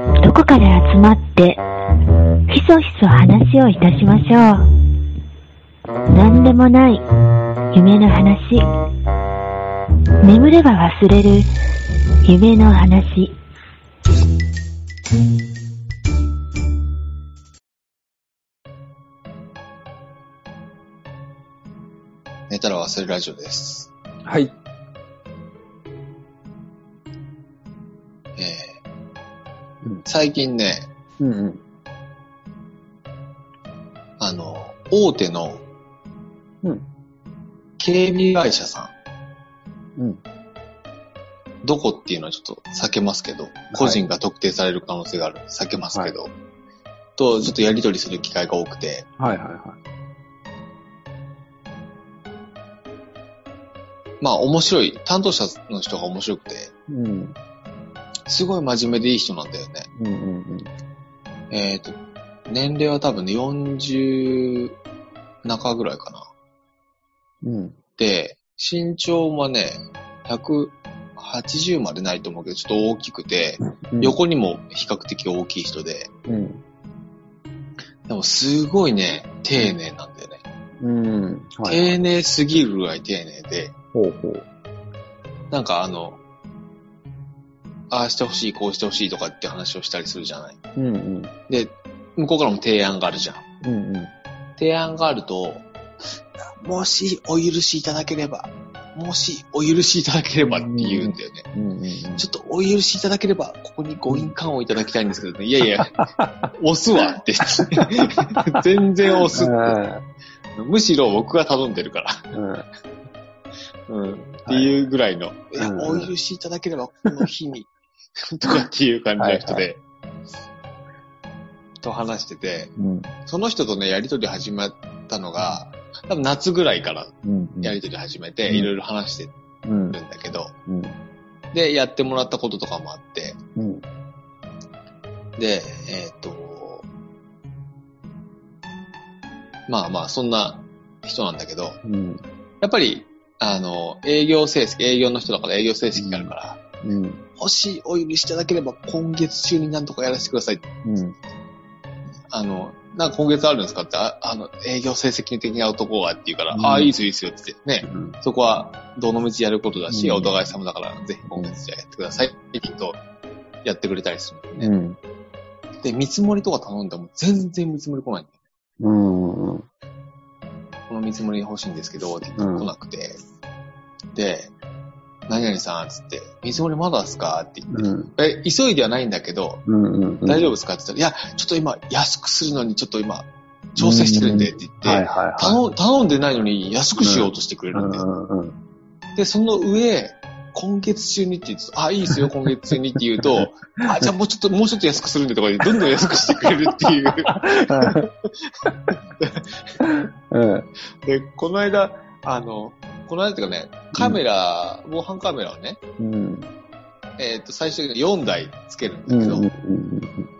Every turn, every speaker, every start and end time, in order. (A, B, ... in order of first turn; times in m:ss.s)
0:00.2-0:01.6 A
0:02.5-0:04.7 A
0:06.1-0:07.0 A
0:07.7-0:08.6 A
0:10.2-0:11.5 A
0:12.2-0:13.3 A
0:22.5-0:23.9 B
0:24.2-0:24.5 C
0:28.4-0:28.8 B
0:30.0-0:30.9 B
0:31.2-0:31.6 C
0:34.2-0:35.6 B
0:37.8-0:38.9 B
0:40.0-0:40.2 C
0:41.6-0:46.3 B
0:43.7-0:44.0 C
0:45.9-0:46.2 C
0:47.2-0:49.0 B
0:49.2-0:49.8 C
0:54.2-0:56.7 B
0:56.9-0:57.4 C
0:58.3-0:59.9 B
0:59.9-1:00.7 C
1:01.5-1:02.0 B
1:02.5-1:04.8 B
1:05.4-1:06.3 B
1:07.4-1:07.8 C
1:08.0-1:16.1 B
1:13.6-1:14.2 C
1:16.2-1:16.6 C
1:18.1-1:20.4 B
1:20.8-1:22.0 C
1:21.6-1:23.7 B
1:23.9-1:24.4 C
1:25.5-1:26.2 B
1:27.9-1:30.6 B
1:30.8-1:31.3 C
1:31.5-1:33.4 B
1:33.6-1:34.1 C
1:34.6-1:35.7 B
1:36.6-1:41.4 B
1:40.4-1:42.3 C
1:42.2-1:46.0 B
1:46.0-1:46.3 C
1:46.5-1:49.8 B
1:47.5-1:48.6 C
1:49.3-1:50.0 C
1:50.6-1:52.2 B
1:52.3-1:52.6 C
1:53.9-1:59.8 B
1:54.4-1:54.7 C
1:55.6-1:56.1 C
1:59.2-1:59.7 C
2:01.8-2:02.7 B
2:02.8-2:03.1 C
2:03.2-2:09.3 B
2:07.2-2:07.8 C
2:09.6-2:10.0 C
2:09.9-2:10.5 B
2:10.7-2:11.0 C
2:11.5-2:13.4 B
2:13.6-2:13.8 C
2:15.4-2:16.8 B
2:19.7-2:21.8 B
2:21.8-2:22.2 C
2:22.6-2:26.6 B
2:25.9-2:27.2 C
2:27.4-2:30.6 B
2:30.8-2:31.2 C
2:32.3-2:43.0 B
2:36.5-2:36.9 C
2:37.8-2:38.2 C
2:39.9-2:40.3 C
2:41.2-2:41.6 C
2:43.6-2:44.7 B
2:44.6-2:45.0 C
2:45.8-2:48.3 B
2:48.8-2:49.7 C
2:50.9-2:53.2 B
2:52.4-2:52.7 C
2:54.1-2:54.5 B
2:55.3-2:59.6 B
2:57.7-2:58.1 C
2:59.6-3:00.5 C
3:00.2-3:08.0 B
3:03.8-3:05.6 C
3:07.0-3:08.6 C
3:09.1-3:18.5 B
3:13.2-3:14.0 C
3:15.7-3:16.4 C
3:17.0-3:18.1 C
3:18.6-3:18.9 C
3:19.2-3:19.5 B
3:19.8-3:20.7 C
3:21.0-3:25.8 B
3:23.9-3:24.2 C
3:26.0-3:26.5 C
3:27.2-3:29.5 B
3:29.1-3:30.3 C